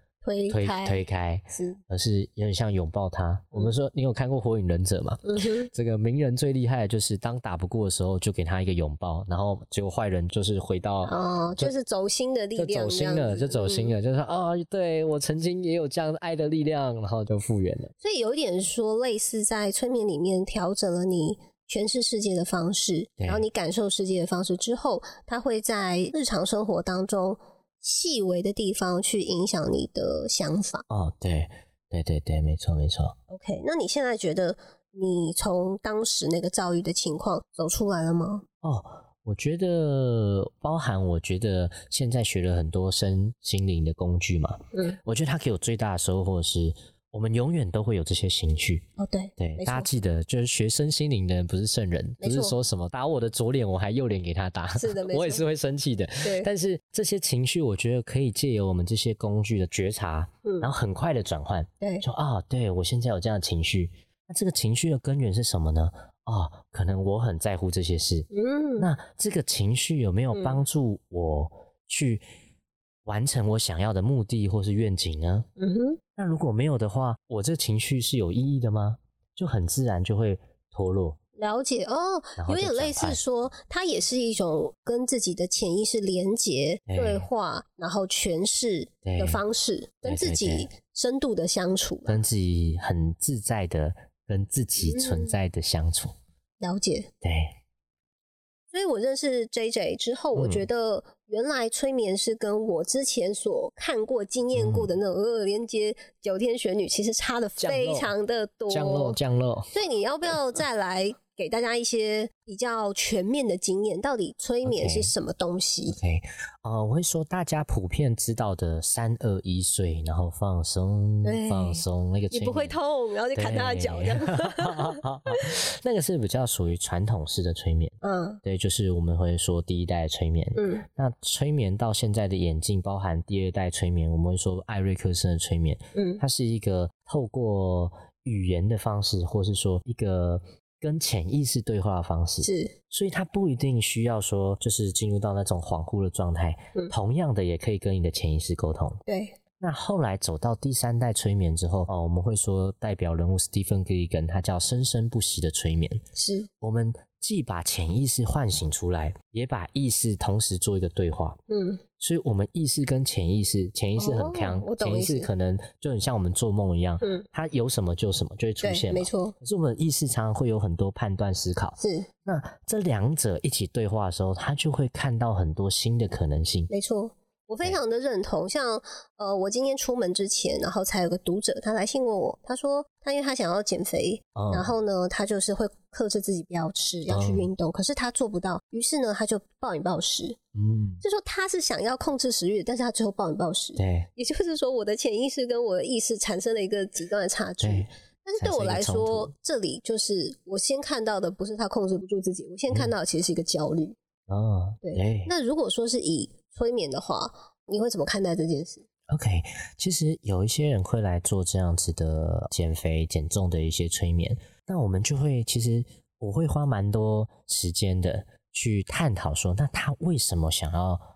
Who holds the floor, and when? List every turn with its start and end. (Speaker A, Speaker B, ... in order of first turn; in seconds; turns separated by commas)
Speaker A: 0.2-1.8, Speaker B: 0.5-11.7, Speaker A: 5.2-5.7, Speaker A: 11.0-13.9, Speaker B: 12.6-17.9, Speaker A: 18.0-30.8, Speaker B: 23.2-23.4, Speaker B: 30.9-33.1, Speaker A: 33.3-38.4, Speaker B: 38.6-48.9, Speaker A: 49.0-49.9, Speaker B: 49.4-72.2, Speaker A: 52.2-52.5, Speaker A: 54.7-55.5, Speaker A: 56.2-56.5, Speaker A: 60.4-60.7, Speaker A: 68.3-68.9, Speaker A: 70.3-70.6, Speaker B: 73.0-75.5, Speaker A: 75.6-76.0, Speaker B: 76.2-81.2, Speaker A: 81.4-92.2, Speaker B: 82.4-83.2, Speaker B: 86.9-87.3, Speaker B: 89.0-89.4, Speaker B: 90.0-90.7, Speaker B: 92.0-96.1, Speaker A: 94.8-95.4, Speaker A: 96.6-97.1, Speaker B: 97.2-97.5, Speaker A: 98.7-109.2, Speaker B: 100.3-100.7, Speaker B: 104.5-104.9, Speaker B: 107.6-108.1, Speaker B: 108.7-109.7, Speaker A: 109.7-116.0, Speaker B: 114.6-115.1, Speaker B: 115.9-122.8, Speaker A: 121.2-125.4, Speaker B: 123.3-149.0, Speaker A: 128.0-128.4, Speaker A: 130.6-130.8, Speaker A: 135.9-136.2, Speaker A: 142.4-142.7, Speaker A: 149.1-149.4, Speaker B: 149.6-156.0, Speaker A: 156.1-156.5, Speaker B: 156.6-161.4, Speaker A: 161.5-161.8, Speaker B: 162.0-176.7, Speaker A: 163.9-165.3, Speaker A: 167.0-167.3, Speaker A: 168.6-169.3, Speaker A: 171.8-172.1, Speaker A: 176.7-190.4, Speaker B: 184.3-184.7, Speaker B: 187.1-187.5, Speaker B: 190.5-191.0, Speaker A: 191.0-203.9, Speaker B: 193.8-194.1, Speaker B: 197.6-197.9, Speaker B: 198.4-199.3, Speaker B: 204.3-205.3, Speaker A: 204.8-208.8, Speaker B: 209.1-221.0